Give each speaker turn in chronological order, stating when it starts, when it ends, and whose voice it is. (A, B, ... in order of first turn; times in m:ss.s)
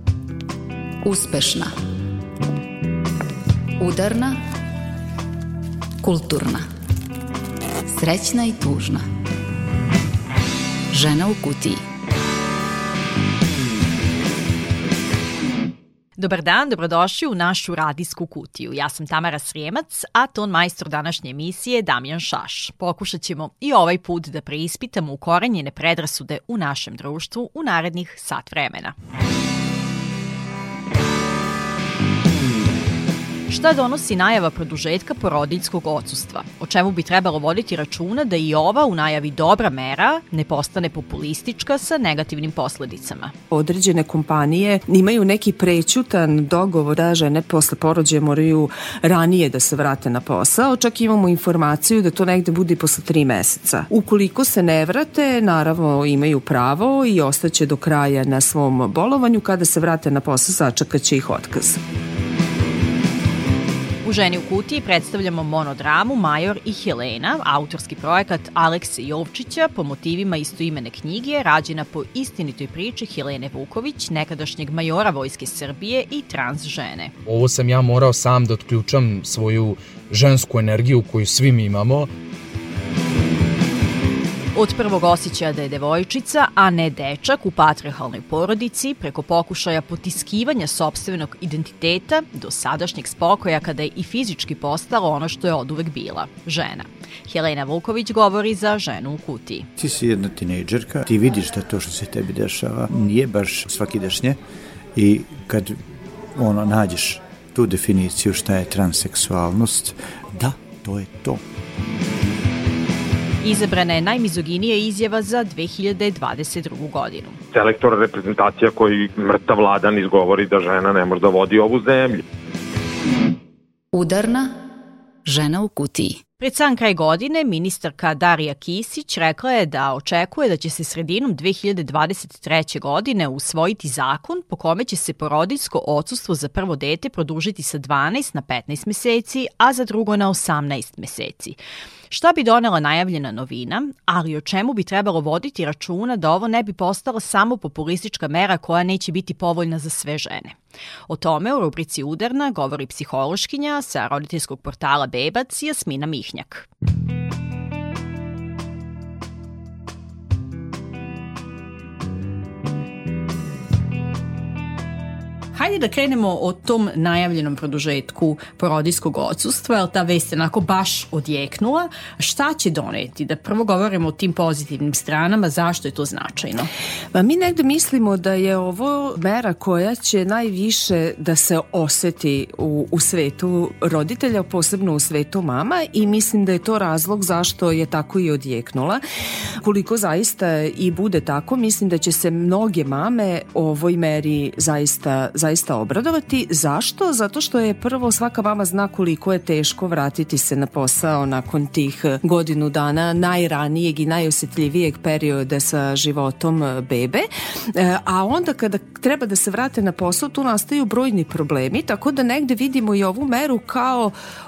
0:01.0-0:01.7 A
0:03.8-0:04.4 A
0:06.0-0:06.6 A
0:07.9-0:09.0 A
0:10.9-0:11.8 A
0:16.2-0:28.9 B
0:33.5-0:43.3 B
0:43.5-1:01.8 C
1:04.0-1:17.1 B
1:17.2-1:22.1 D
1:24.5-1:39.7 B
1:39.8-1:44.4 E
1:44.9-1:45.8 E
1:46.3-1:51.4 E
1:53.4-1:57.4 B
1:57.5-2:02.2 F
2:03.9-2:04.5 A
2:05.2-2:06.2 A
2:06.4-2:21.6 B
2:22.1-2:30.6 B
2:31.1-2:36.7 B
2:45.5-2:56.7 B
2:57.1-3:09.0 C
3:09.6-3:34.1 C